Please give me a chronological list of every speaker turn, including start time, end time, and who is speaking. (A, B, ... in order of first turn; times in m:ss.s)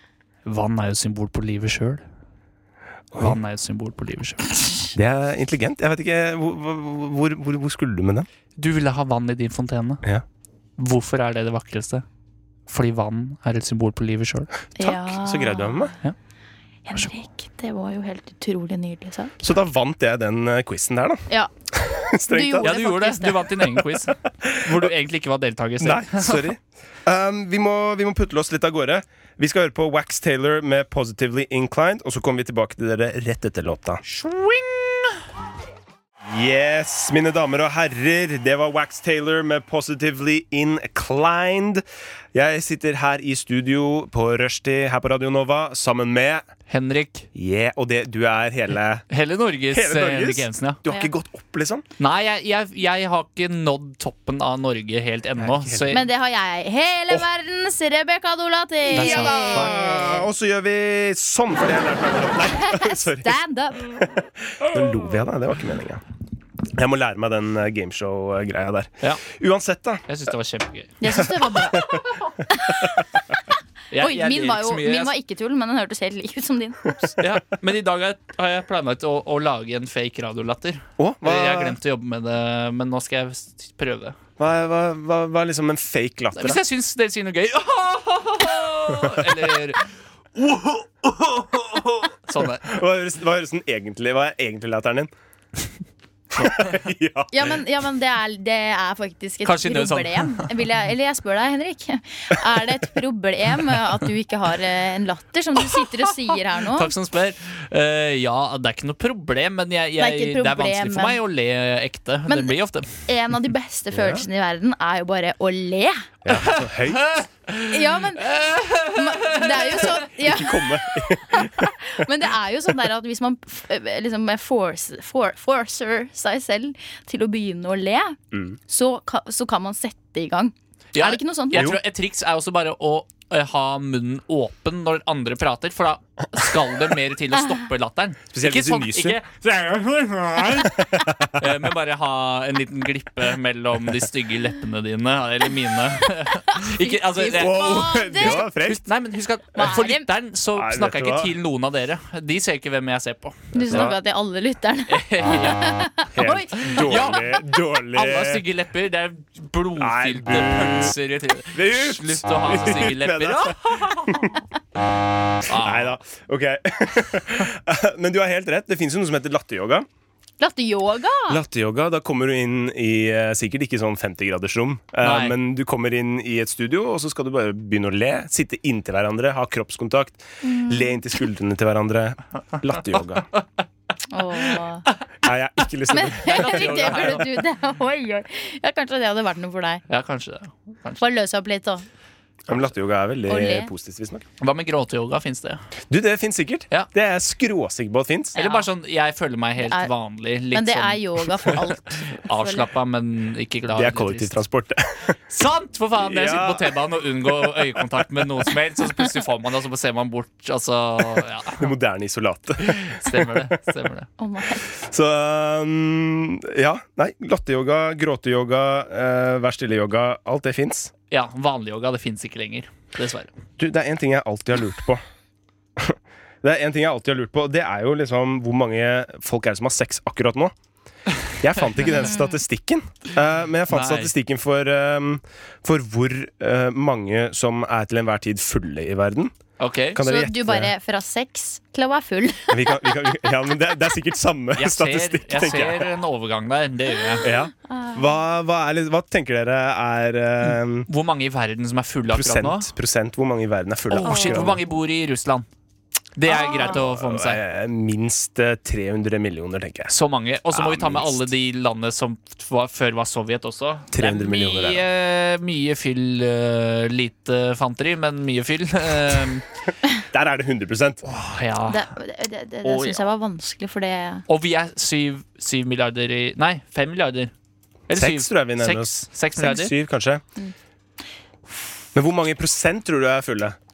0:00.4-0:02.0 A
0:03.1-0:03.4 B
0:03.2-0:04.7 A
0:04.9-0:08.3 B
0:08.6-0:10.0 A
0:10.8-0:12.0 A
0:12.7-0:14.5 A
0:14.8-0:15.9 C
0:14.8-0:16.0 B
0:16.9-0:19.4 C
0:19.4-0:22.8 B
0:22.2-0:23.5 C
0:22.6-0:26.5 A
0:23.8-0:24.9 B
0:25.8-0:34.0 B
0:34.0-0:35.2 A
0:36.3-0:46.5 B
0:46.7-0:47.3 A
0:47.3-0:49.0 B
0:49.1-0:50.8 A
0:49.7-0:51.8 B
0:52.0-0:56.0 A
0:55.4-0:56.0 B
0:55.9-0:59.8 C
0:58.9-1:06.0 B
0:58.9-1:00.2 A
1:02.5-1:03.9 C
1:06.7-1:10.0 B
1:10.1-1:11.0 A
1:11.0-1:13.1 C
1:11.1-1:12.2 B
1:13.9-1:15.1 A
1:14.0-1:17.1 C
1:17.2-1:24.2 A
1:21.0-1:21.8 B
1:24.4-1:26.6 B
1:26.4-1:32.7 A
1:31.5-1:31.9 B
1:32.6-1:35.1 B
1:36.3-1:37.6 B
1:36.4-1:36.6 A
1:37.3-1:46.9 C
1:39.4-1:40.5 A
1:46.6-1:53.0 A
1:50.0-1:51.2 C
1:52.3-1:56.0 C
1:53.9-1:54.2 B
1:56.2-1:57.1 B
1:56.3-2:00.0 A
1:57.7-2:11.7 C
2:00.0-2:01.9 B
2:08.3-2:08.6 B
2:10.9-2:33.9 A
2:11.5-2:11.8 B
2:18.3-2:19.2 B
2:20.8-2:21.4 B
2:26.5-2:28.5 C
2:27.3-2:28.8 B
2:29.5-2:30.1 C
2:30.5-2:31.3 B
2:33.5-2:37.2 C
2:33.7-2:33.9 B
2:34.9-2:35.8 A
2:36.1-2:38.4 B
2:36.6-2:44.3 A
2:39.8-2:40.9 B
2:41.5-2:44.4 B
2:45.4-2:45.9 A
2:45.5-2:49.9 B
2:50.4-2:51.4 C
2:51.3-3:03.3 B
2:55.0-2:55.3 A
3:00.4-3:01.0 C
3:04.1-3:04.8 C
3:05.2-3:07.2 B
3:05.9-3:09.8 C
3:06.2-3:07.3 A
3:09.9-3:11.0 A
3:11.0-3:11.8 C
3:12.5-3:14.2 B
3:13.3-3:13.7 C
3:14.4-3:15.6 A
3:15.9-3:18.4 B
3:18.3-3:18.7 C
3:18.4-3:24.4 A
3:19.6-3:19.9 C
3:20.5-3:22.7 C
3:23.7-3:25.2 B
3:25.3-3:31.7 A
3:26.0-3:28.3 B
3:31.6-3:33.5 B
3:32.6-3:34.1 A
3:34.2-3:34.7 C
3:34.6-3:40.9 B
3:41.1-3:43.3 A
3:43.6-3:45.0 B
3:45.8-3:50.5 B
3:51.4-3:59.4 B
3:51.9-3:52.3 C
3:53.7-3:54.1 A
3:59.6-4:00.0 A
3:59.9-4:00.7 B
4:00.0-4:03.2 C
4:02.5-4:05.9 B
4:04.6-4:07.3 A
4:07.2-4:10.9 B
4:07.4-4:08.0 C
4:10.5-4:12.7 A
4:12.1-4:14.6 B
4:13.9-4:15.4 A
4:14.0-4:14.5 C
4:16.2-4:17.4 A
4:16.3-4:16.8 C
4:16.6-4:19.9 B
4:19.9-4:29.5 A
4:20.5-4:21.3 B
4:23.9-4:24.8 B
4:30.0-4:31.0 B
4:31.0-4:31.8 A
4:31.7-4:34.2 C
4:32.6-4:33.0 A
4:34.3-4:37.3 A
4:37.9-4:39.7 A
4:37.9-4:40.2 B
4:41.9-4:43.6 B